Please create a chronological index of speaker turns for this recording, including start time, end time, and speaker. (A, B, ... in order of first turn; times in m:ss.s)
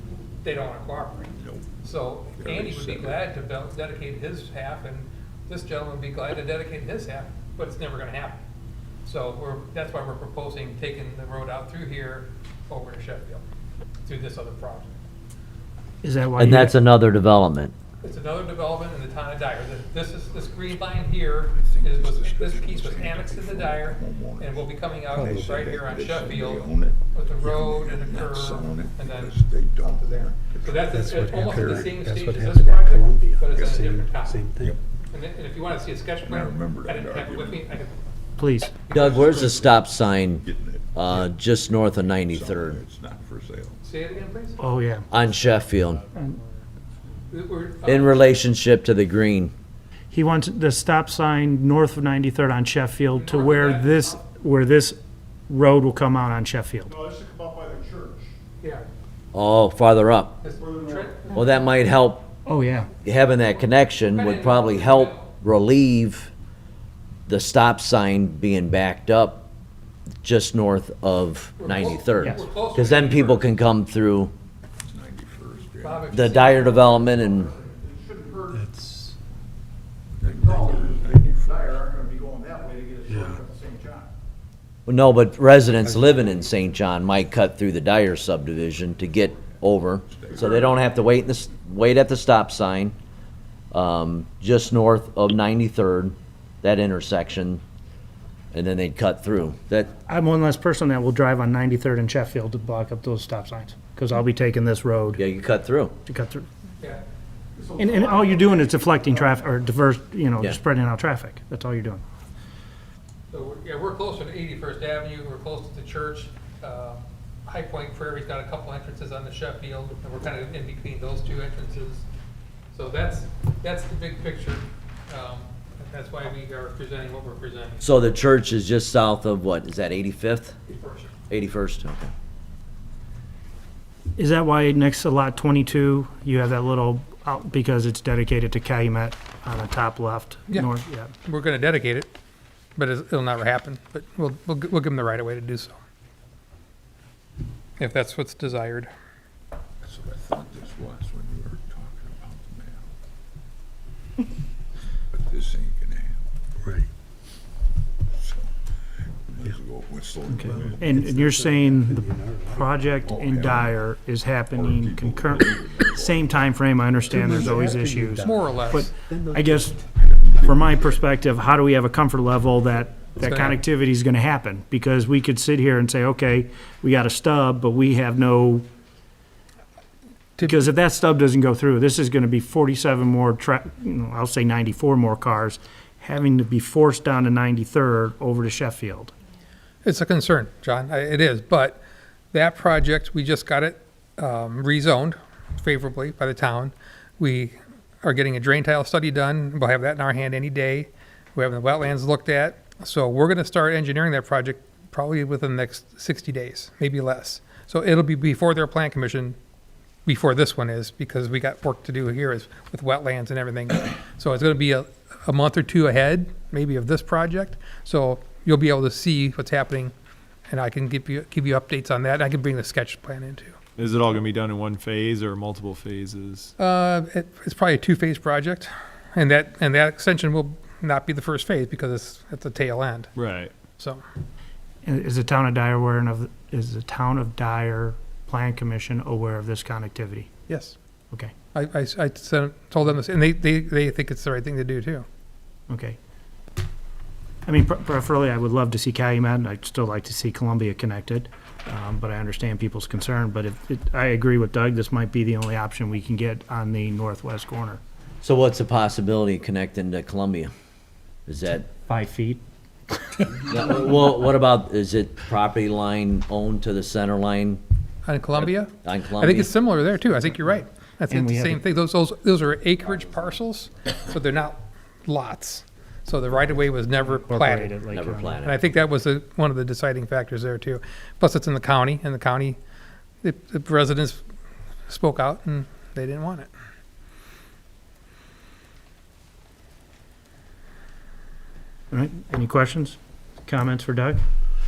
0:00.4-0:08.4 A
0:01.4-0:01.7 B
0:02.4-0:03.3 B
0:09.0-0:13.4 A
0:14.0-0:14.9 A
0:16.0-0:16.8 C
0:16.4-0:17.7 D
0:18.0-0:34.5 A
0:21.5-0:31.9 B
0:25.1-0:25.5 E
0:30.9-0:34.8 E
0:35.1-0:38.0 A
0:36.2-0:37.8 B
0:38.4-0:38.8 C
0:38.9-0:41.3 B
0:38.9-0:42.8 D
0:39.0-0:39.4 A
0:42.2-0:43.8 B
0:43.8-0:44.6 A
0:44.6-0:45.1 C
0:45.1-0:46.0 D
0:47.3-0:48.2 A
0:47.8-0:49.5 D
0:50.1-0:57.0 C
0:53.1-0:54.2 A
0:57.0-0:58.2 F
0:59.3-1:00.4 D
1:00.4-1:01.4 A
1:00.8-1:01.0 F
1:01.3-1:02.3 D
1:02.5-1:02.9 C
1:03.0-1:06.3 D
1:04.1-1:05.3 A
1:07.3-1:09.5 D
1:10.2-1:14.3 D
1:11.6-1:13.5 A
1:14.8-1:16.5 B
1:15.8-1:16.8 A
1:16.1-1:17.5 D
1:17.8-1:18.5 F
1:18.5-1:19.2 E
1:20.2-1:21.9 B
1:20.4-1:21.2 F
1:22.0-1:24.0 F
1:23.1-1:23.4 E
1:24.9-1:33.0 D
1:25.9-1:26.2 E
1:29.1-1:30.9 B
1:33.7-1:37.6 D
1:38.5-1:39.9 D
1:40.1-1:45.2 C
1:45.2-1:45.9 D
1:46.1-1:46.5 C
1:47.6-1:49.1 F
1:47.8-1:52.0 C
1:53.3-2:02.1 A
2:02.7-2:07.9 A
2:07.8-2:10.6 D
2:10.7-2:11.1 A
2:11.3-2:12.1 D
2:14.2-2:21.1 C
2:21.2-2:22.1 A
2:22.8-2:25.8 A
2:27.8-2:28.9 A
2:29.8-2:32.9 B
2:35.1-2:36.2 B
2:38.1-2:38.5 B
2:39.1-2:41.0 B
2:40.3-2:49.8 C
2:40.5-2:43.0 E
2:43.0-2:43.8 B
2:44.5-2:47.4 B
2:47.1-2:49.8 E
2:48.2-2:48.9 A
2:49.8-2:51.1 B
2:50.4-2:58.7 C
2:53.2-2:53.6 A
3:00.4-3:00.7 A
3:00.4-3:09.2 C
3:09.8-3:11.8 A
3:12.3-3:29.4 A
3:30.1-3:39.9 A
3:40.5-3:43.6 A
3:43.8-3:46.5 G
3:46.6-3:53.1 A
3:53.2-3:53.5 G
3:53.8-3:54.0 A
3:54.8-4:00.3 C
4:00.5-4:00.8 A
4:01.5-4:05.1 A
4:05.7-4:06.0 C
4:07.5-4:17.8 C
4:18.2-4:20.5 D
4:21.3-4:21.7 D
4:21.9-4:22.4 C
4:23.1-4:23.5 C
4:23.5-4:27.6 D
4:28.1-4:37.8 A
4:28.4-4:29.5 D
4:31.1-4:31.6 C
4:36.9-4:38.4 C
4:37.9-4:38.6 D
4:38.4-4:42.6 A
4:43.2-4:44.2 A
4:44.9-4:46.5 A
4:51.9-4:54.2 C